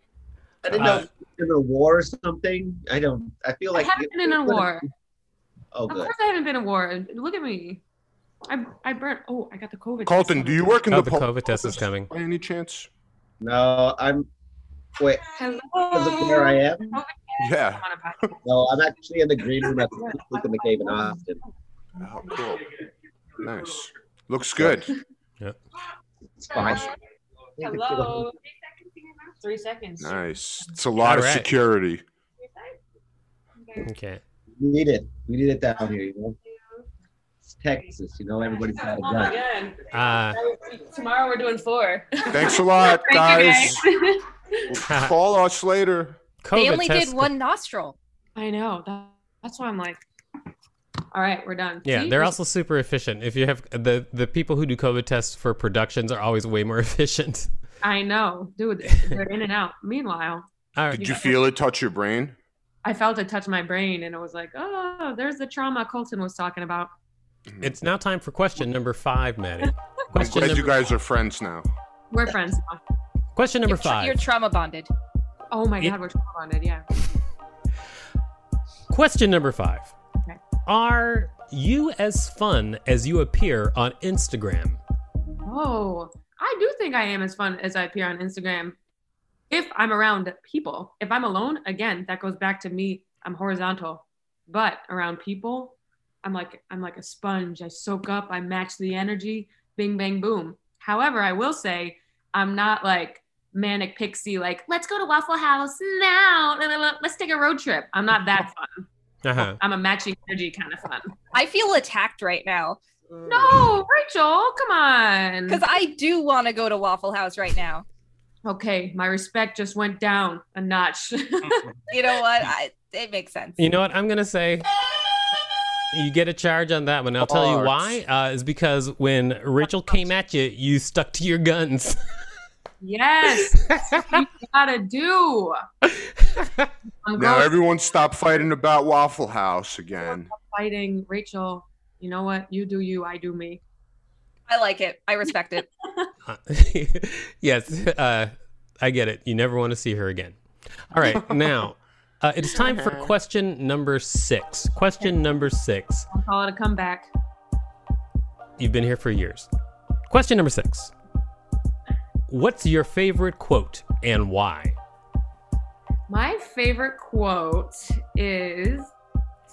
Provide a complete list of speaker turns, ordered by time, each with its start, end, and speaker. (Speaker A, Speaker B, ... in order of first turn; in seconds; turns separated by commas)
Speaker A: 0.6-4.7, Speaker B: 0.7-1.1, Speaker C: 3.7-4.8, Speaker A: 5.7-6.1, Speaker C: 5.9-7.8, Speaker C: 8.5-10.8, Speaker D: 10.1-12.9, Speaker B: 10.9-12.1, Speaker A: 13.4-14.3, Speaker A: 15.0-15.3, Speaker C: 15.3-18.7, Speaker A: 15.9-17.0, Speaker D: 17.4-18.3, Speaker A: 18.4-21.4, Speaker C: 19.4-21.2, Speaker C: 22.0-22.4, Speaker D: 22.0-22.7, Speaker D: 23.4-24.9, Speaker A: 24.6-24.9, Speaker A: 26.4-26.9, Speaker C: 26.5-26.9, Speaker A: 27.6-28.2, Speaker C: 27.6-30.4, Speaker D: 30.0-32.0, Speaker B: 31.0-31.5, Speaker C: 32.4-32.8, Speaker C: 33.6-33.9, Speaker B: 33.8-34.2, Speaker A: 34.6-36.4, Speaker A: 37.5-39.4, Speaker C: 38.6-44.7, Speaker B: 39.9-40.4, Speaker D: 42.3-43.8, Speaker D: 44.7-46.2, Speaker B: 44.9-45.1, Speaker B: 46.4-47.3, Speaker E: 46.5-48.0, Speaker C: 48.4-50.0, Speaker C: 51.1-52.4, Speaker B: 51.9-57.5, Speaker C: 57.8-61.4, Speaker B: 60.8-61.0, Speaker D: 60.9-62.4, Speaker C: 62.8-66.9, Speaker B: 67.6-70.8, Speaker D: 70.2-71.7, Speaker C: 72.1-72.8, Speaker B: 73.3-74.2, Speaker E: 73.7-74.9, Speaker C: 75.5-76.8, Speaker B: 78.9-79.9, Speaker B: 80.7-84.8, Speaker C: 85.5-88.8, Speaker C: 89.5-111.1, Speaker B: 109.2-109.6, Speaker E: 111.3-112.8, Speaker C: 113.3-115.6, Speaker E: 115.5-117.8, Speaker C: 118.5-121.7, Speaker E: 121.9-123.7, Speaker B: 123.6-124.7, Speaker B: 125.9-132.0, Speaker D: 127.2-128.0, Speaker C: 132.8-135.6, Speaker B: 133.4-134.0, Speaker B: 136.0-136.7, Speaker C: 137.0-137.5, Speaker D: 137.2-140.3, Speaker C: 140.1-143.6, Speaker E: 144.5-145.7, Speaker B: 146.3-150.4, Speaker B: 150.9-156.1, Speaker C: 156.1-157.1, Speaker B: 158.6-159.5, Speaker B: 160.1-160.9, Speaker B: 162.3-164.8, Speaker C: 166.1-168.9